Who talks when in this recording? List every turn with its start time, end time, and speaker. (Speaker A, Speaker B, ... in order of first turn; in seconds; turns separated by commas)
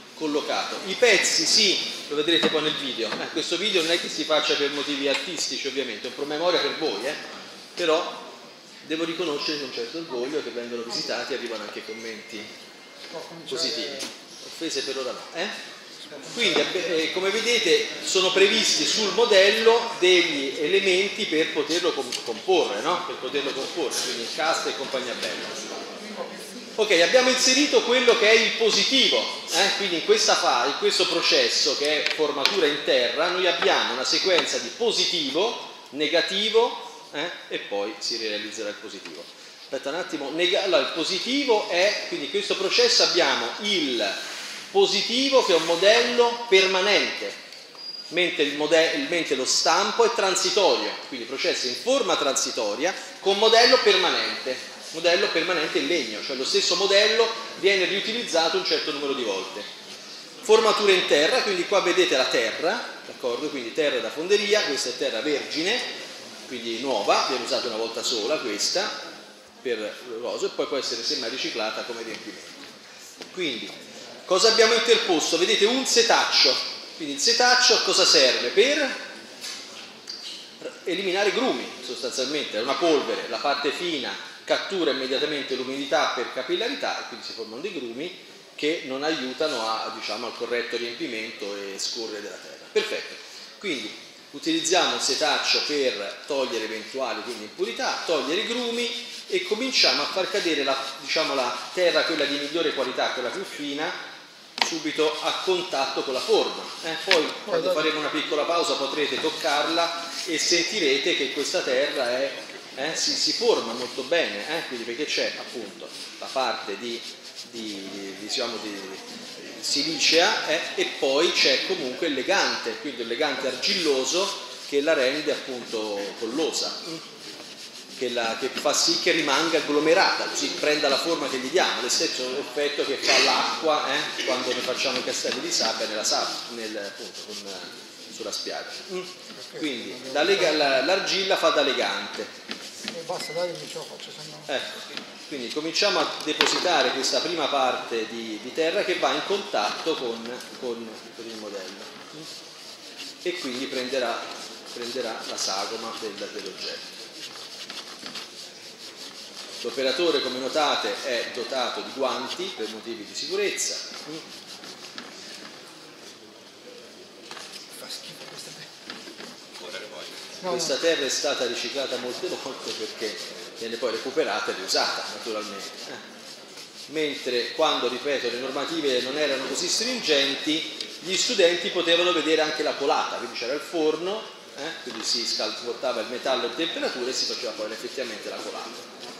Speaker A: 0.1-7.2, Speaker A: 7.8-8.2, Speaker A: 8.8-12.5, Speaker B: 13.1-14.1, Speaker A: 13.5-15.5, Speaker B: 16.0-16.9, Speaker A: 16.3-25.6, Speaker B: 26.0-26.7, Speaker A: 26.8-44.2, Speaker A: 44.7-47.4, Speaker A: 48.1-59.7, Speaker A: 60.4-65.9, Speaker A: 66.5-68.9, Speaker A: 69.6-72.5, Speaker A: 73.3-73.7, Speaker A: 74.2-79.0, Speaker A: 80.6-104.0, Speaker A: 104.6-119.0, Speaker B: 107.5-107.9, Speaker A: 119.6-127.0, Speaker A: 128.0-142.3, Speaker B: 139.3-140.8, Speaker B: 142.9-144.5, Speaker A: 144.5-152.3, Speaker A: 153.2-156.8, Speaker A: 159.6-164.2, Speaker B: 167.8-168.7, Speaker B: 170.4-170.7, Speaker A: 170.4-176.0, Speaker A: 176.9-188.9